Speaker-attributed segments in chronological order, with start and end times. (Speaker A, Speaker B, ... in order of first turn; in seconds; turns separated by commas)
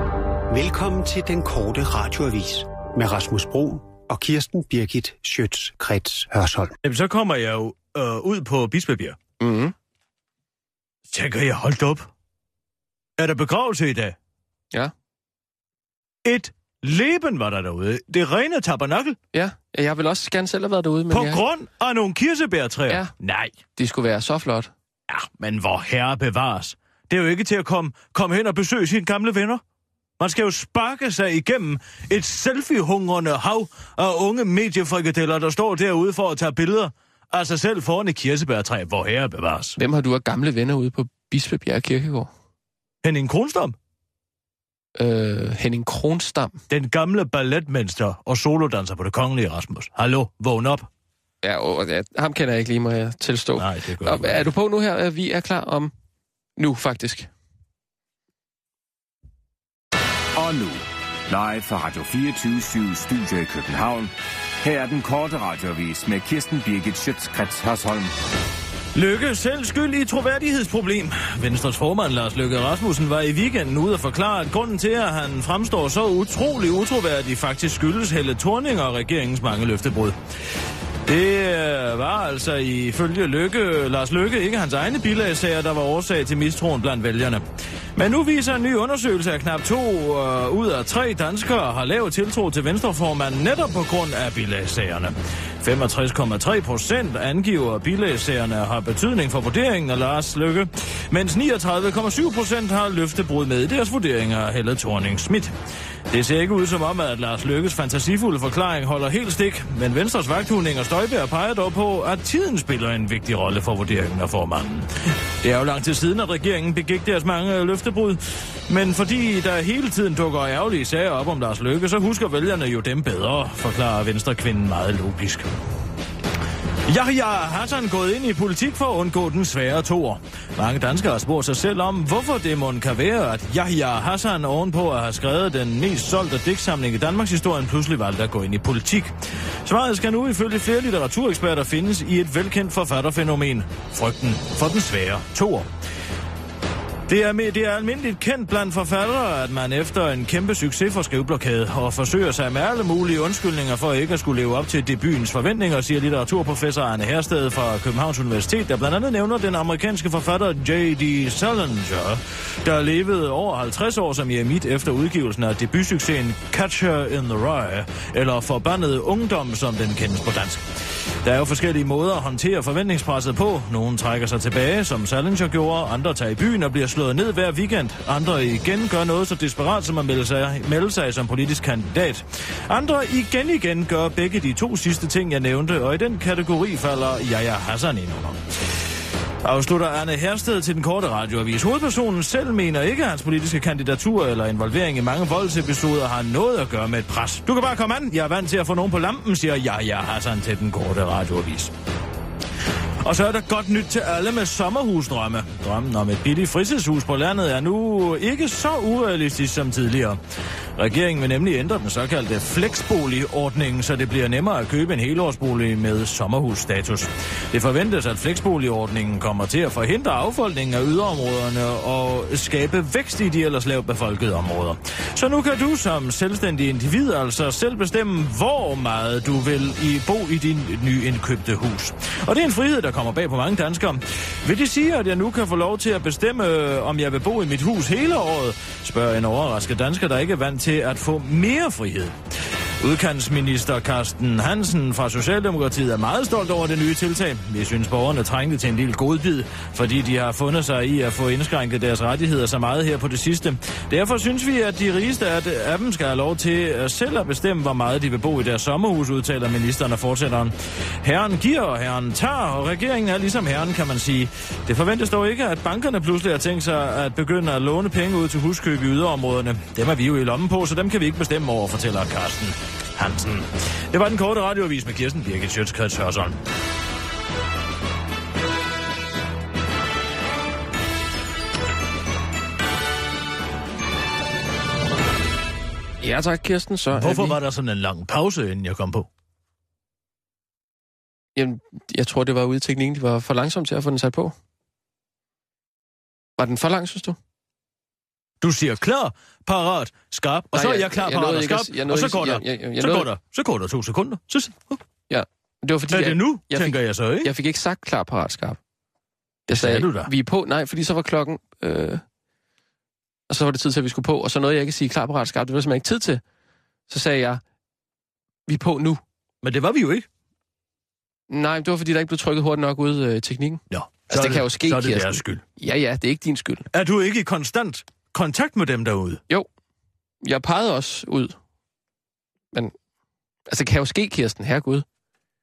Speaker A: 0.5-6.7, Speaker B: 6.8-9.2, Speaker C: 9.4-9.7, Speaker B: 11.1-12.1, Speaker B: 13.2-14.2, Speaker B: 16.2-19.2, Speaker C: 19.3-21.4, Speaker B: 21.1-23.6, Speaker C: 23.7-24.7, Speaker B: 25.1-29.6, Speaker B: 30.2-39.8, Speaker C: 39.8-42.3, Speaker B: 43.0-43.8, Speaker C: 45.0-46.6, Speaker B: 46.7-50.9, Speaker C: 51.4-55.9, Speaker B: 53.5-54.5, Speaker C: 56.6-57.3, Speaker D: 60.4-64.1, Speaker D: 64.6-68.1, Speaker B: 68.9-80.1, Speaker B: 81.0-87.4, Speaker B: 88.0-105.5, Speaker B: 106.1-114.9, Speaker B: 115.4-125.5, Speaker B: 126.9-145.7, Speaker B: 147.1-170.6, Speaker B: 171.2-188.4, Speaker B: 189.4-201.7, Speaker B: 203.0-210.2, Speaker B: 210.8-242.1, Speaker B: 242.8-276.4, Speaker C: 286.0-287.4, Speaker B: 286.9-289.1, Speaker C: 291.4-294.3, Speaker C: 296.4-297.2, Speaker B: 298.4-304.8, Speaker C: 300.5-303.1, Speaker C: 305.1-308.6, Speaker B: 305.9-307.3, Speaker C: 309.5-312.0, Speaker B: 309.5-310.1, Speaker C: 313.3-316.2, Speaker C: 316.9-317.4, Speaker C: 318.5-319.0, Speaker B: 319.4-320.1, Speaker C: 321.3-326.6, Speaker B: 323.7-325.4, Speaker B: 326.7-329.2, Speaker C: 330.2-331.4, Speaker C: 333.5-334.8